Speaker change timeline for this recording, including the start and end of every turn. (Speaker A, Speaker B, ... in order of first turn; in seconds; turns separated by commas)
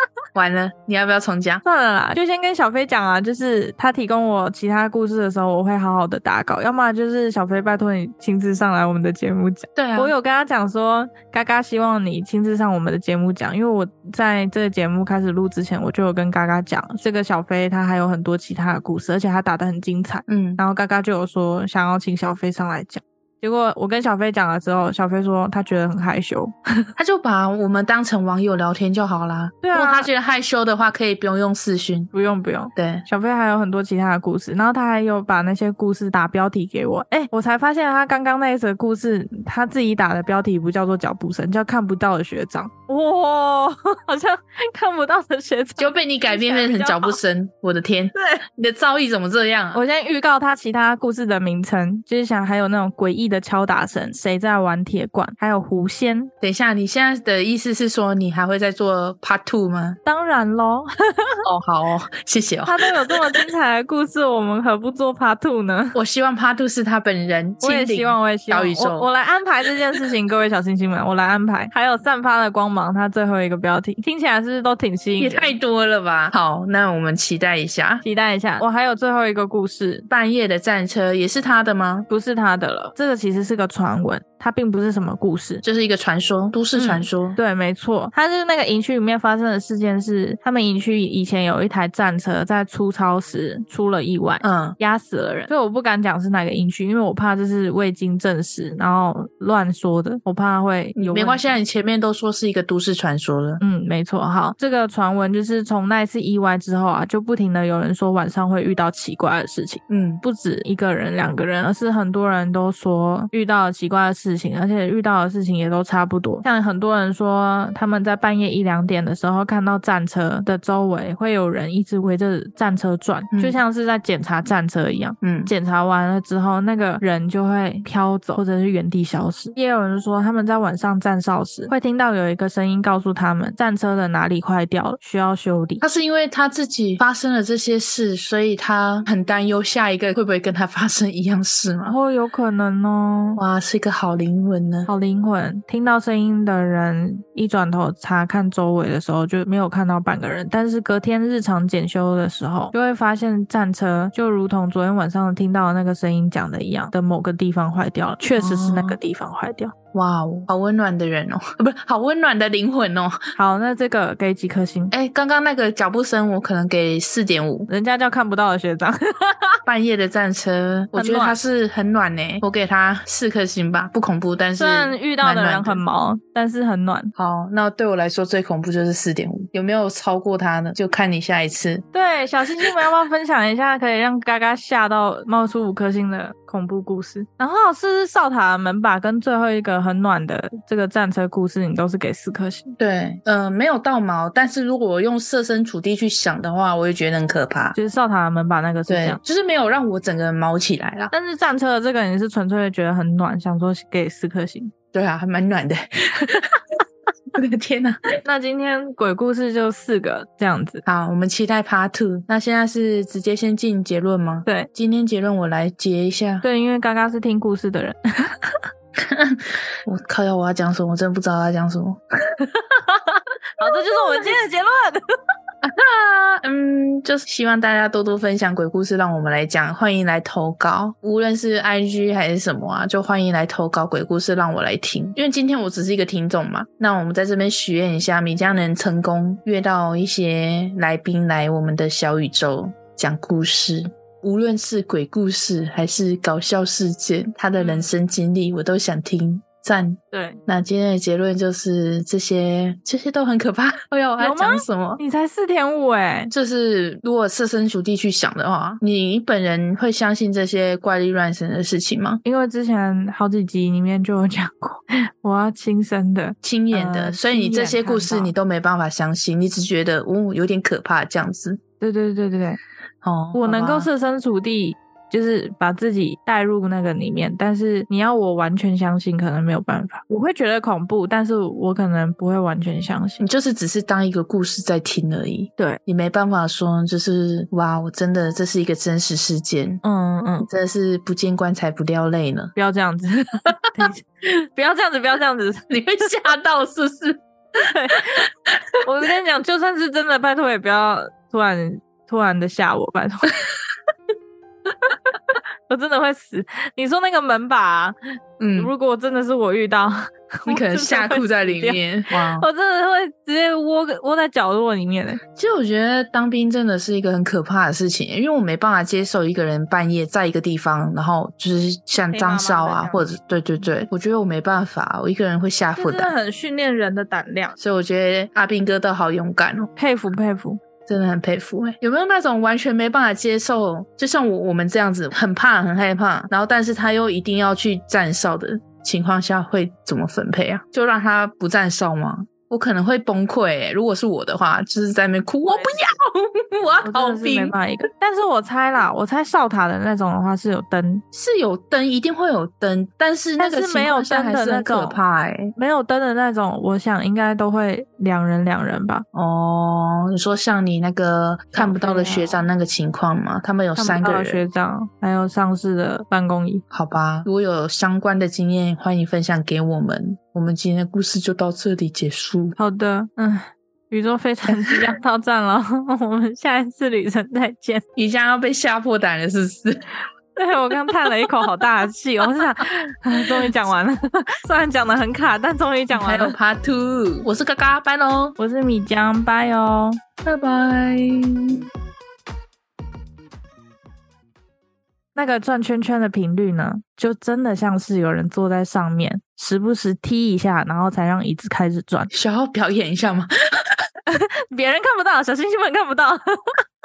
Speaker A: 0.3-1.6, Speaker B: 1.6-26.6, Speaker A: 9.8-10.1, Speaker A: 20.3-20.6, Speaker A: 27.0-32.1, Speaker B: 29.6-30.1, Speaker B: 32.1-47.2, Speaker A: 32.8-33.1, Speaker A: 45.8-49.8, Speaker B: 49.7-56.3, Speaker A: 56.4-60.0, Speaker B: 60.0-61.5, Speaker A: 61.5-63.4, Speaker B: 62.6-66.0, Speaker A: 66.0-69.1, Speaker B: 67.6-75.5, Speaker A: 75.2-78.0, Speaker B: 78.0-80.1, Speaker A: 80.1-82.1, Speaker B: 82.1-85.6, Speaker A: 85.6-87.4, Speaker B: 86.8-101.6, Speaker A: 94.4-94.8, Speaker A: 101.0-103.6, Speaker B: 103.6-135.8, Speaker A: 109.9-110.2, Speaker A: 123.3-123.6, Speaker A: 125.2-125.5, Speaker A: 135.8-141.9, Speaker B: 141.8-143.4, Speaker A: 143.4-144.9, Speaker B: 144.9-159.7, Speaker A: 158.4-159.0, Speaker A: 159.9-163.2, Speaker B: 163.4-164.9, Speaker A: 164.9-167.7, Speaker B: 167.7-169.6, Speaker A: 169.7-175.8, Speaker B: 170.9-171.4, Speaker B: 174.6-177.1, Speaker A: 177.2-181.8, Speaker B: 181.9-192.8, Speaker A: 192.8-197.8, Speaker B: 197.8-199.2, Speaker A: 198.9-201.1, Speaker B: 201.1-204.7, Speaker A: 204.9-206.6, Speaker A: 207.3-208.0, Speaker B: 208.2-210.8, Speaker A: 210.8-216.4, Speaker B: 216.4-218.5, Speaker A: 219.0-222.0, Speaker B: 222.5-225.0, Speaker A: 223.6-224.3, Speaker A: 225.6-255.0, Speaker B: 247.6-247.9, Speaker B: 250.1-250.4, Speaker B: 254.2-256.3, Speaker A: 256.3-262.2, Speaker B: 262.2-268.3, Speaker A: 266.4-271.6, Speaker B: 271.8-272.6, Speaker A: 273.0-273.9, Speaker B: 273.3-283.2, Speaker A: 283.2-289.8, Speaker B: 289.8-290.5, Speaker A: 290.5-292.5, Speaker B: 292.6-295.7, Speaker A: 295.7-297.2, Speaker B: 297.6-298.3, Speaker B: 298.8-303.4, Speaker B: 305.7-307.9, Speaker A: 308.4-308.7, Speaker B: 308.6-315.2, Speaker A: 310.5-312.5, Speaker A: 315.4-326.1, Speaker B: 322.1-323.1, Speaker B: 325.8-327.6, Speaker A: 327.6-329.7, Speaker B: 329.8-330.6, Speaker A: 330.9-347.6, Speaker B: 345.5-345.7, Speaker B: 346.8-351.0, Speaker A: 351.1-355.5, Speaker B: 353.4-355.0, Speaker B: 355.6-359.0, Speaker A: 359.1-364.4, Speaker B: 361.5-362.5, Speaker B: 363.8-366.6, Speaker A: 366.7-372.6, Speaker B: 372.6-377.8, Speaker A: 378.0-379.9, Speaker B: 380.4-386.4, Speaker A: 385.9-388.4, Speaker B: 388.4-390.0, Speaker A: 390.2-391.7, Speaker B: 395.1-402.1, Speaker A: 402.1-403.8, Speaker B: 404.1-406.6